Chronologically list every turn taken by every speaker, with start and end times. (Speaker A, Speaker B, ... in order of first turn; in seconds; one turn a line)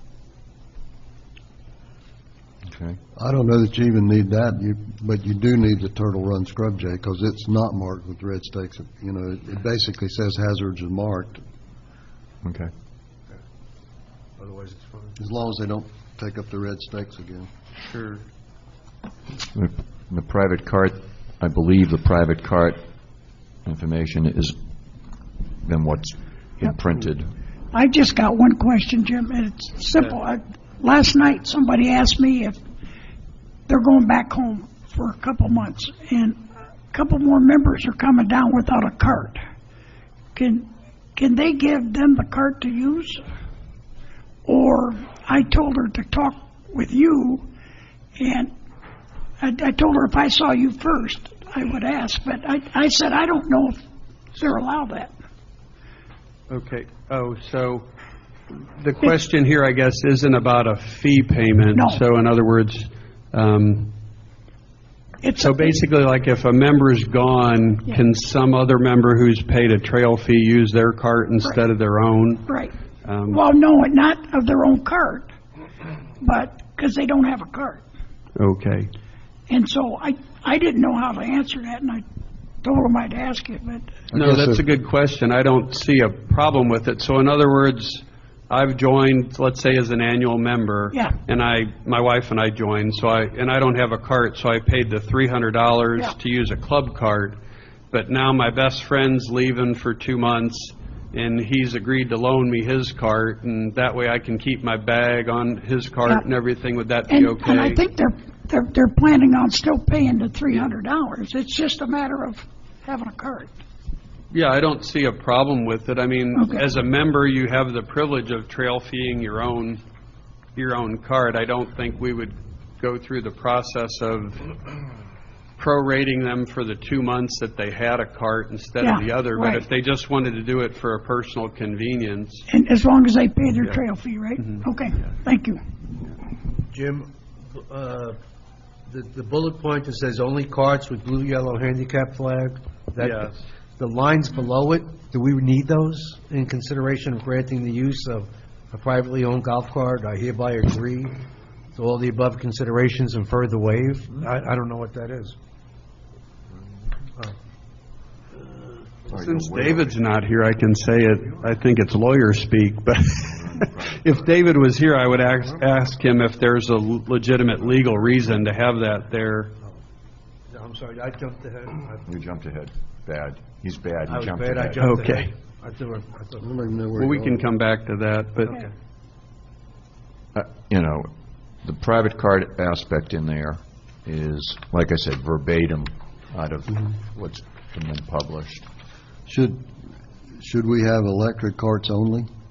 Speaker A: 2.6-3.0
Speaker B: 3.1-11.4
Speaker A: 12.4-12.7
Speaker C: 14.4-15.2
Speaker B: 15.2-17.5
Speaker D: 17.8-18.2
Speaker A: 19.5-22.8
Speaker A: 23.6-24.5
Speaker A: 25.6-27.3
Speaker E: 27.7-32.6
Speaker E: 33.7-39.4
Speaker E: 40.3-43.2
Speaker E: 44.5-47.5
Speaker E: 48.2-48.5
Speaker E: 49.4-53.8
Speaker E: 54.3-55.1
Speaker D: 56.5-57.9
Speaker D: 58.5-63.9
Speaker E: 61.7-62.0
Speaker E: 65.2-65.8
Speaker D: 65.4-72.5
Speaker E: 72.5-72.7
Speaker D: 73.0-73.4
Speaker E: 73.3-75.3
Speaker E: 76.2-77.8
Speaker D: 78.4-78.9
Speaker E: 79.5-82.0
Speaker E: 82.6-84.0
Speaker B: 84.1-84.6
Speaker D: 84.1-97.4
Speaker D: 97.9-107.8
Speaker E: 107.1-113.6
Speaker D: 114.3-119.8
Speaker E: 116.3-116.6
Speaker D: 120.5-124.5
Speaker D: 125.6-132.5
Speaker E: 128.8-129.6
Speaker E: 132.5-135.6
Speaker D: 133.6-133.8
Speaker D: 134.4-135.1
Speaker C: 136.5-138.2
Speaker C: 138.9-151.2
Speaker D: 143.0-143.4
Speaker C: 151.7-155.4
Speaker A: 159.1-159.9
Speaker D: 159.1-169.5
Speaker A: 163.2-164.2
Speaker C: 170.5-172.1
Speaker A: 172.1-174.9
Speaker C: 174.1-176.7
Speaker D: 174.8-175.3
Speaker B: 176.4-177.4
Speaker D: 176.9-178.6
Speaker A: 180.3-181.1
Speaker A: 181.6-188.7
Speaker B: 189.2-189.7
Speaker B: 190.4-192.3